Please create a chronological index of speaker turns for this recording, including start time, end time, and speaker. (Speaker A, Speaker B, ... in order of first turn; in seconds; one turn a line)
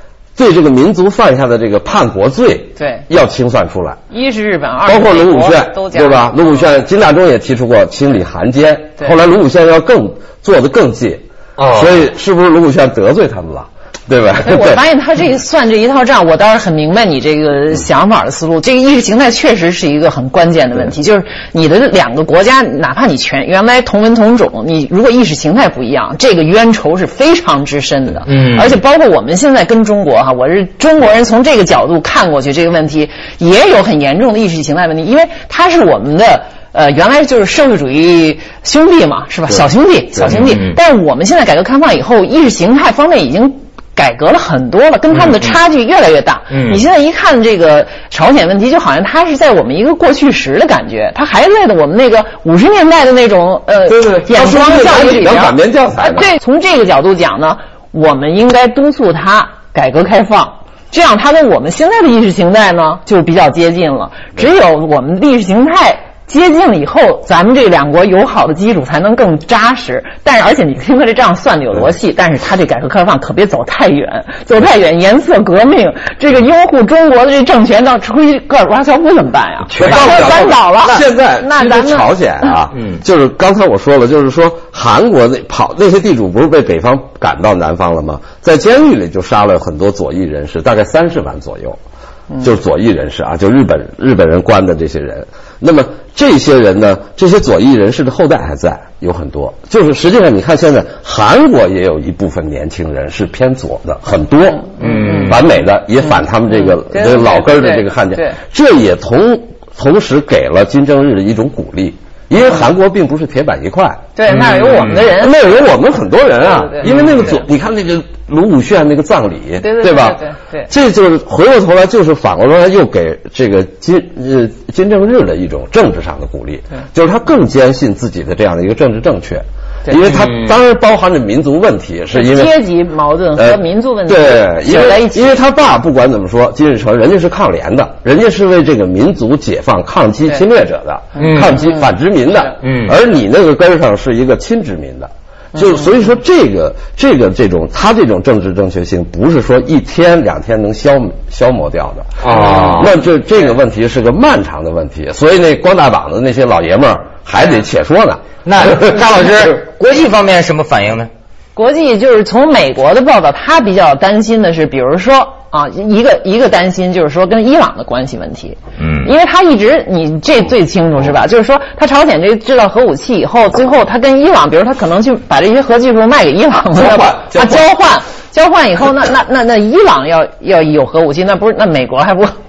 Speaker A: 0.4-4.0
Speaker B: 2.8-3.0
Speaker B: 4.1-6.5
Speaker A: 4.8-14.8
Speaker C: 11.6-12.1
Speaker B: 14.4-82.1
Speaker C: 28.3-28.8
Speaker C: 40.2-40.8
Speaker C: 45.2-45.5
Speaker C: 46.5-46.8
Speaker A: 53.9-56.3
Speaker C: 79.7-80.5
Speaker A: 79.8-91.8
Speaker A: 92.4-114.0
Speaker B: 104.8-105.4
Speaker C: 104.8-105.5
Speaker B: 106.6-108.4
Speaker B: 114.2-115.7
Speaker C: 114.3-115.1
Speaker A: 115.0-132.5
Speaker B: 116.4-117.3
Speaker C: 116.8-117.3
Speaker B: 119.6-120.7
Speaker C: 130.0-130.6
Speaker B: 132.1-135.4
Speaker A: 133.4-159.2
Speaker C: 141.2-141.6
Speaker C: 142.6-143.0
Speaker C: 152.2-153.0
Speaker C: 158.4-161.1
Speaker B: 161.6-182.3
Speaker C: 168.8-169.1
Speaker A: 176.8-177.7